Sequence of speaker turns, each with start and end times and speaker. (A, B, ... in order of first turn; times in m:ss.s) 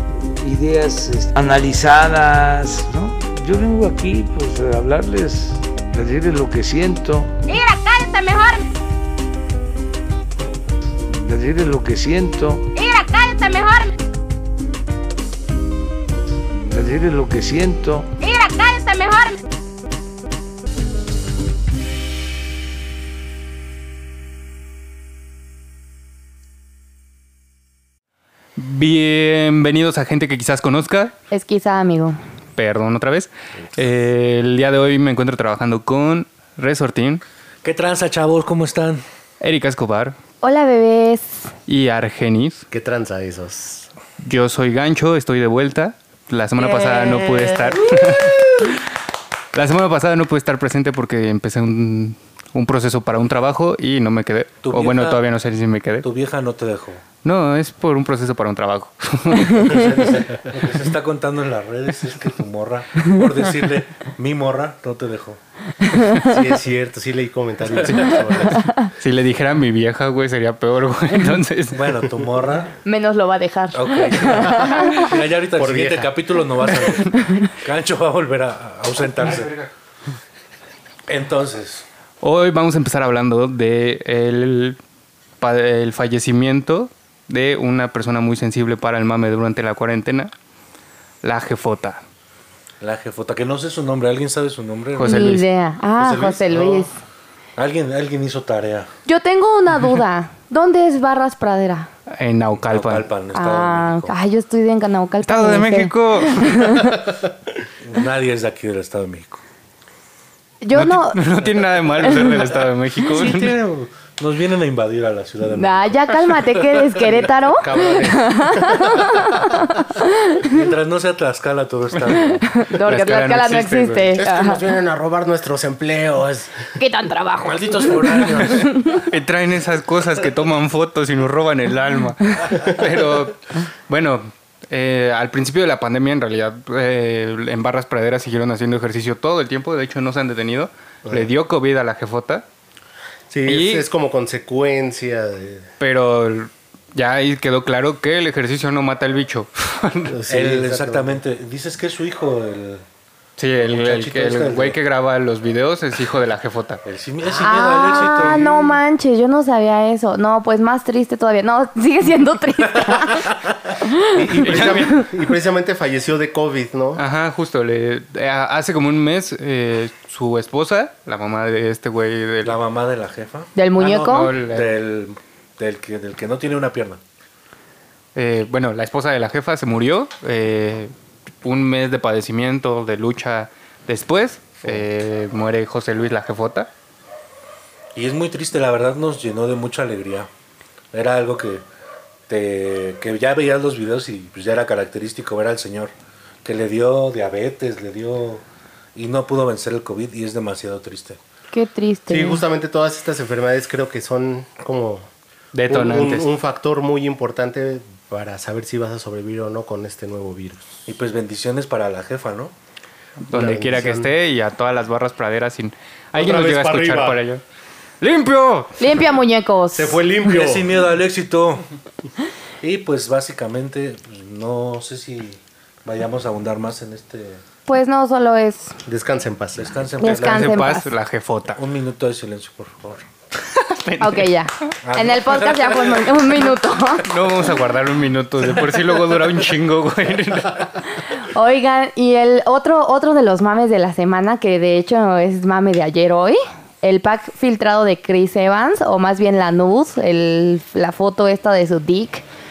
0:00.4-0:07.4 A
0:07.5-0:08.6 B
0:11.1-0:12.7 A
0:12.7-0:13.9 B
0:16.6-0:18.1 A
0:18.2-0:19.4 B
0:28.6-0:31.1 C
0:31.3-0:32.2 D
0:32.6-0:37.2 C
0:37.6-0:39.0 E
0:39.4-0:40.2 C
0:40.4-0:41.5 D
0:41.7-0:42.7 C
0:42.7-0:43.9 F
0:44.2-0:48.8 C
0:46.8-0:47.5 E
0:49.5-0:56.1 C
0:54.6-0:55.2 E
0:56.0-0:57.0 E
0:57.2-1:00.0 C
0:59.6-1:00.7 F
0:59.7-1:05.4 E
1:05.9-1:06.2 D
1:06.3-1:08.6 F
1:07.8-1:08.1 E
1:07.9-1:08.2 C
1:08.8-1:12.0 C
1:11.7-1:12.7 E
1:12.8-1:15.1 D
1:13.7-1:19.6 E
1:15.6-1:16.1 F
1:21.1-1:21.8 E
1:22.2-1:24.8 C
1:25.4-1:30.3 C
1:31.2-1:32.0 C
1:32.8-1:35.4 E
1:35.0-1:35.4 C
1:35.0-1:36.9 D
1:36.0-1:36.9 F
1:37.6-1:38.9 E
1:39.1-1:41.9 D
1:42.1-1:43.1 C
1:42.7-1:44.1 E
1:43.3-1:47.1 D
1:45.3-1:46.8 C
1:47.8-1:49.4 E
1:50.6-1:51.2 D
1:50.7-1:53.6 C
1:52.1-1:52.4 D
1:53.0-1:57.2 E
1:55.5-2:00.6 D
1:57.6-1:59.4 F
2:00.4-2:02.5 E
2:02.2-2:04.6 D
2:02.7-2:04.2 C
2:04.2-2:06.7 F
2:06.8-2:09.0 D
2:07.4-2:08.8 E
2:08.9-2:22.4 C
2:23.3-2:25.7 F
2:23.5-2:23.9 C
2:25.8-2:30.2 C
2:30.1-2:31.2 F
2:30.3-2:32.8 E
2:33.4-2:36.8 C
2:33.6-2:34.8 E
2:36.8-2:38.5 E
2:37.4-2:43.3 D
2:42.8-2:43.3 E
2:43.9-2:45.0 D
2:44.1-2:47.0 F
2:44.4-2:45.0 C
2:47.0-2:52.6 C
2:52.4-2:57.0 E
2:53.6-2:54.3 D
2:53.9-2:54.8 C
2:58.2-3:06.7 C
3:08.0-3:10.3 E
3:10.9-3:11.6 E
3:12.3-3:15.9 E
3:16.4-3:18.4 E
3:19.0-3:21.2 E
3:21.5-3:22.4 D
3:22.1-3:25.1 F
3:25.5-3:26.3 C
3:25.7-3:30.8 F
3:30.9-3:32.5 E
3:33.3-3:37.4 C
3:33.3-3:34.1 F
3:36.2-3:37.2 F
3:38.0-3:38.8 C
3:38.8-3:40.0 D
3:39.7-3:40.7 F
3:40.2-3:41.6 E
3:42.6-3:47.4 E
3:47.7-3:48.8 D
3:48.8-3:49.8 F
3:49.6-3:50.6 E
3:50.0-3:50.9 D
3:50.0-3:51.6 C
3:51.6-3:53.1 E
3:53.5-3:54.3 C
3:54.0-3:57.1 D
3:54.8-3:56.5 E
3:57.1-4:00.7 C
4:01.2-4:12.2 D